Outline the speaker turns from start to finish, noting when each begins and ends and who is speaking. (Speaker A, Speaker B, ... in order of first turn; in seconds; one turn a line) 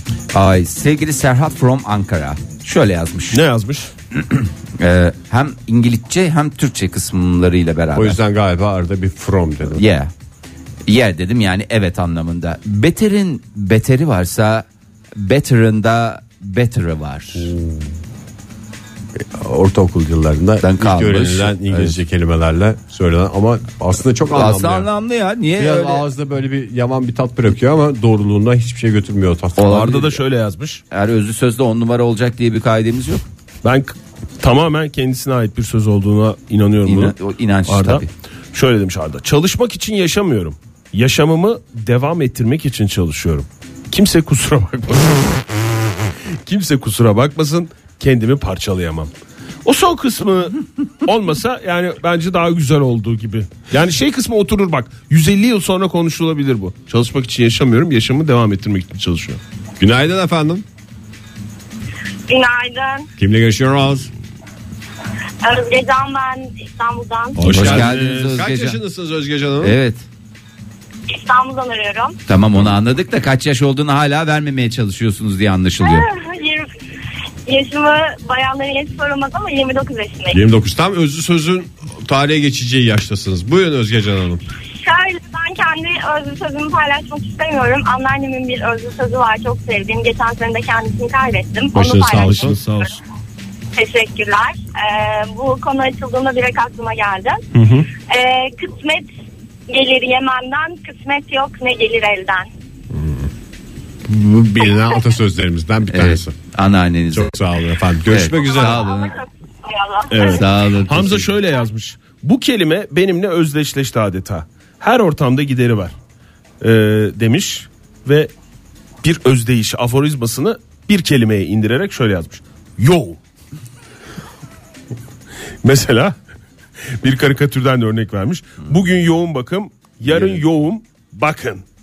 Speaker A: 0.3-3.4
Speaker B: 3.3-3.9
Speaker A: 4.1-8.2
Speaker C: 7.9-9.8
Speaker A: 9.7-10.1
Speaker A: 10.9-17.5
Speaker C: 17.3-17.9
Speaker C: 19.2-24.9
Speaker A: 20.6-22.0
Speaker A: 24.3-26.1
Speaker C: 25.6-30.0
Speaker A: 29.6-30.2
Speaker B: 29.6-30.8
Speaker A: 30.9-33.2
Speaker B: 33.6-37.1
Speaker A: 36.9-38.1
Speaker B: 37.7-45.4
Speaker B: 46.4-49.1
Speaker B: 49.6-59.4
Speaker C: 59.8-60.6
Speaker D: 62.3-63.1
Speaker C: 63.2-64.1
Speaker D: 65.4-67.4
Speaker C: 67.4-69.8
Speaker B: 67.4-68.4
Speaker A: 67.5-68.8
Speaker A: 69.6-70.0
Speaker D: 71.1-72.2
Speaker A: 72.2-76.0
Speaker D: 75.8-76.7
Speaker D: 77.5-80.4
Speaker C: 80.3-84.4
Speaker D: 84.8-93.0
Speaker C: 91.7-92.6
Speaker B: 92.1-93.0
Speaker D: 93.7-97.4
Speaker B: 97.5-97.9
Speaker D: 98.1-99.0
Speaker D: 99.7-102.5
Speaker C: 102.9-103.3
Speaker C: 104.0-106.3
Speaker A: 105.9-107.4
Speaker C: 107.1-108.9
Speaker A: 108.1-109.2
Speaker D: 108.3-110.4
Speaker B: 110.1-115.9
Speaker A: 110.2-111.3
Speaker B: 116.6-118.3
Speaker B: 119.0-123.2
Speaker B: 125.6-126.1
Speaker B: 127.0-131.6